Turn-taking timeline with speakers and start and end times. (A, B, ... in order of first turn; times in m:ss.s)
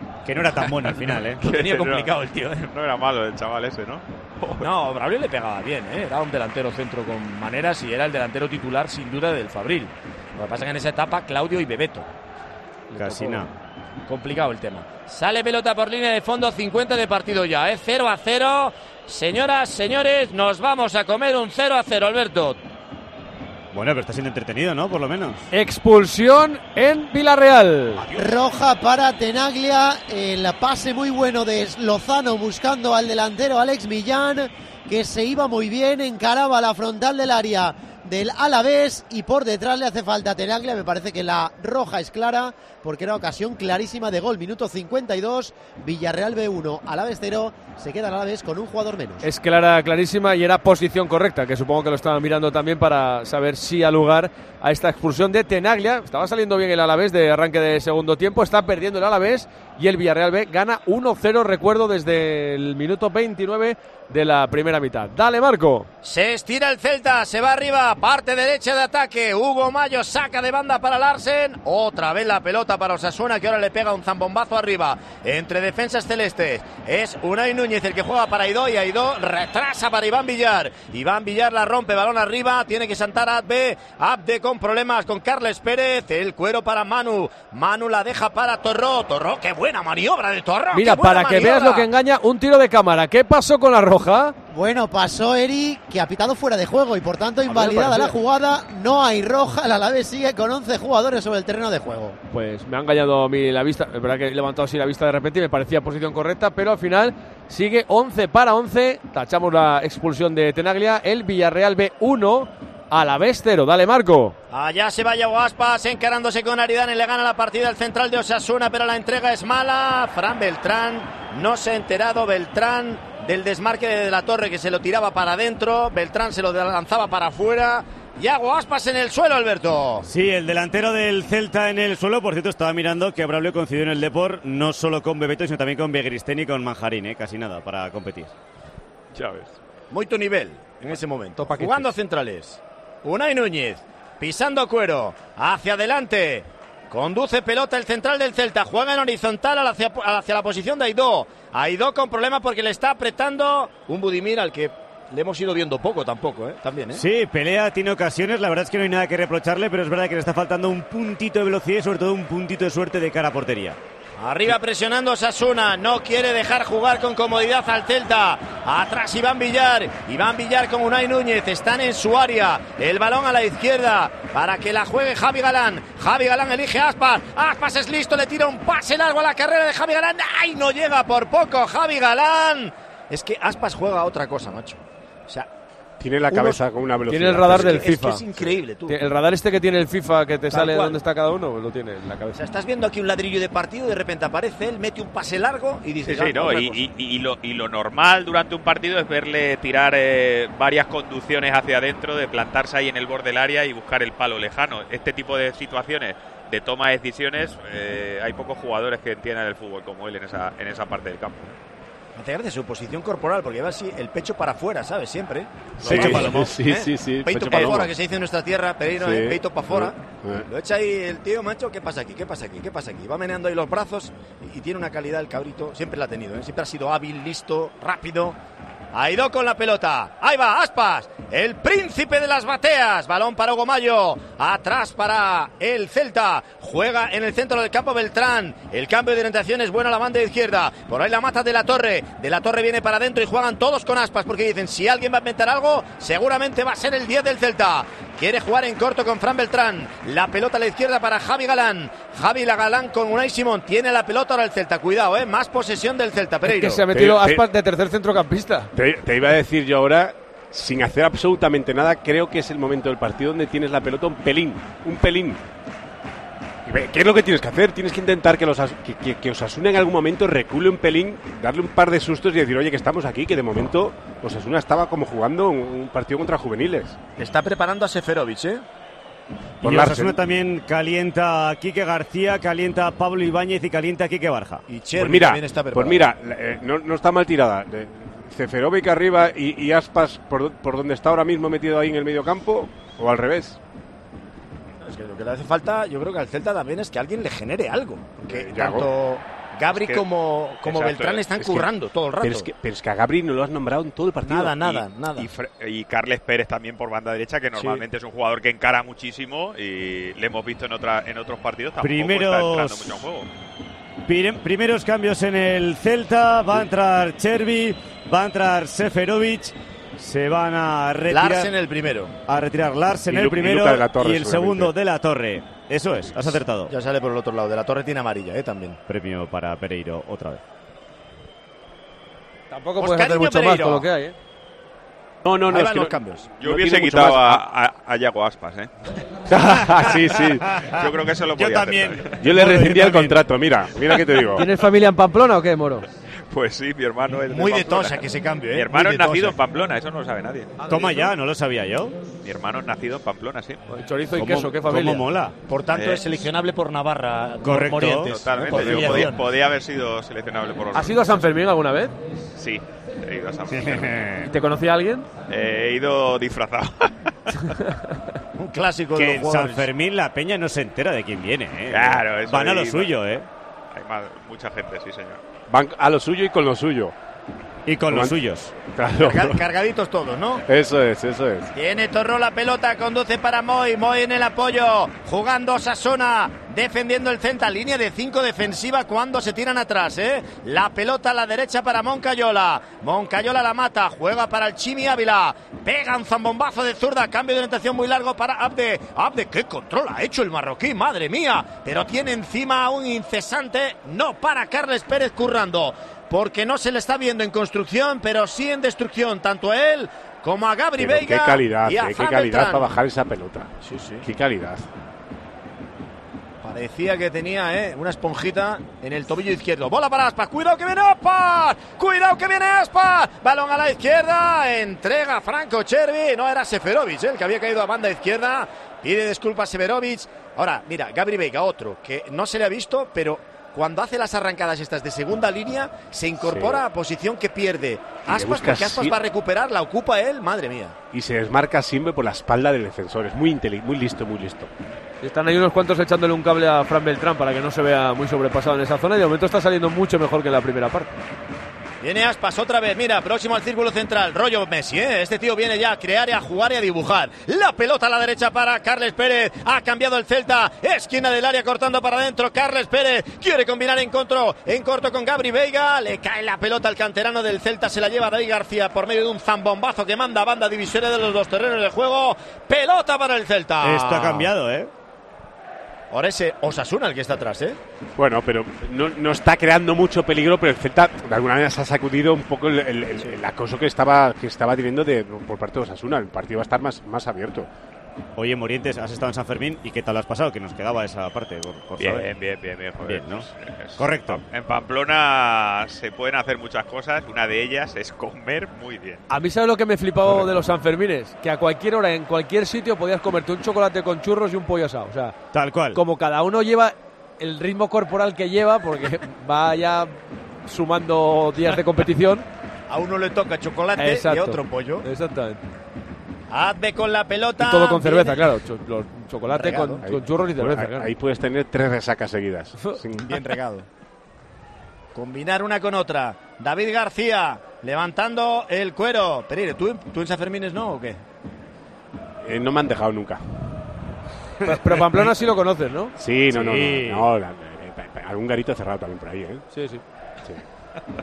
0:00.2-0:01.4 A
0:00.8-0:02.1 B
0:01.4-0:02.7 C
0:02.7-0:04.7 B
0:04.6-0:12.1 C
0:12.9-0:13.5 A
0:13.0-0:13.4 C
0:14.1-0:22.6 C
0:23.7-0:25.4 A
0:25.5-0:28.1 D
0:28.0-0:28.4 C
0:28.1-0:49.3 E
0:49.2-1:05.9 D
1:06.0-1:31.9 C
1:30.7-1:34.4 D
1:34.5-1:42.2 E
1:37.5-1:38.1 D
1:42.3-1:54.4 D
1:54.5-2:10.1 C
2:10.0-2:18.3 A
2:19.2-2:19.5 B
2:19.9-2:37.0 C
2:21.4-2:21.9 D
2:36.9-2:43.8 A
2:44.2-3:05.5 C
3:06.0-3:07.9 F
3:06.3-3:06.6 C
3:07.1-3:08.2 D
3:07.5-3:09.0 C
3:08.9-3:12.4 D
3:10.5-3:11.0 C
3:12.4-3:16.8 C
3:16.0-3:31.5 B
3:32.2-3:48.4 C
3:35.8-3:37.9 F
3:39.0-3:40.5 F
3:48.9-4:16.8 C
4:16.4-4:18.7 D
4:16.9-4:17.4 F
4:18.8-4:25.4 F
4:26.7-4:37.0 F
4:37.2-4:38.6 C
4:39.6-4:40.2 F
4:39.6-4:44.6 A
4:44.7-4:46.1 C
4:45.0-4:53.6 F
4:54.8-5:02.5 C
4:58.3-4:58.9 F
4:59.7-5:00.0 B
5:00.6-5:01.3 B
5:01.4-5:01.7 F
5:02.2-5:04.8 F
5:04.2-5:05.3 C
5:05.2-5:13.3 B
5:11.8-5:13.0 A
5:14.0-5:21.5 A
5:21.1-5:22.2 C
5:22.3-5:26.7 A
5:23.1-5:24.7 F
5:26.7-5:28.8 C
5:28.9-5:30.4 A
5:32.5-5:34.2 D
5:32.8-5:33.9 C
5:35.2-5:37.4 F
5:35.5-5:36.3 C
5:36.4-5:38.7 B
5:39.3-5:40.5 F
5:39.8-5:42.2 B
5:41.4-5:43.2 A
5:42.2-5:44.5 F
5:44.4-5:45.8 D
5:46.3-5:50.5 B
5:47.3-5:49.4 C
5:50.6-5:51.1 D
5:50.7-5:52.0 A
5:52.2-5:53.6 B
5:53.7-5:55.0 D
5:54.2-5:55.4 A
5:55.5-5:59.3 C
5:55.7-5:56.2 B
5:57.4-5:59.1 A
5:57.8-6:01.2 B
6:00.7-6:02.0 D
6:02.4-6:04.1 B
6:03.5-6:04.2 A
6:04.2-6:05.1 D
6:05.3-6:07.6 B
6:08.4-6:09.7 C
6:09.0-6:13.3 A
6:11.7-6:13.2 B
6:13.7-6:15.2 B
6:15.5-6:16.9 F
6:17.7-6:18.5 A
6:17.9-6:18.2 F
6:18.7-6:19.4 F
6:19.0-6:20.4 C
6:20.5-6:21.5 F
6:21.5-6:52.7 C
6:50.8-6:53.5 F
6:53.6-6:54.1 C
6:54.0-6:54.6 F
6:56.4-7:20.8 C
7:16.2-7:16.6 F
7:18.1-7:19.0 F
7:20.9-7:24.5 F
7:25.0-7:31.0 D
7:31.8-7:54.3 C
7:53.6-7:54.7 A
7:55.9-7:57.6 C
7:58.0-8:07.5 F
8:08.2-8:12.1 A
8:11.8-8:19.0 B
8:12.8-8:14.2 A
8:19.1-8:25.2 D
8:25.3-8:25.8 A
8:25.7-8:32.3 D
8:32.7-8:34.8 C
8:33.8-8:35.4 D
8:36.3-8:38.2 C
8:37.4-8:40.9 D
8:39.3-8:39.8 C
8:39.8-8:43.2 F
8:43.1-8:43.7 C
8:44.9-8:51.0 C
8:52.2-8:53.5 F
8:54.4-8:56.9 D
8:54.5-8:55.0 F
8:56.0-8:59.4 F
8:59.5-8:59.8 D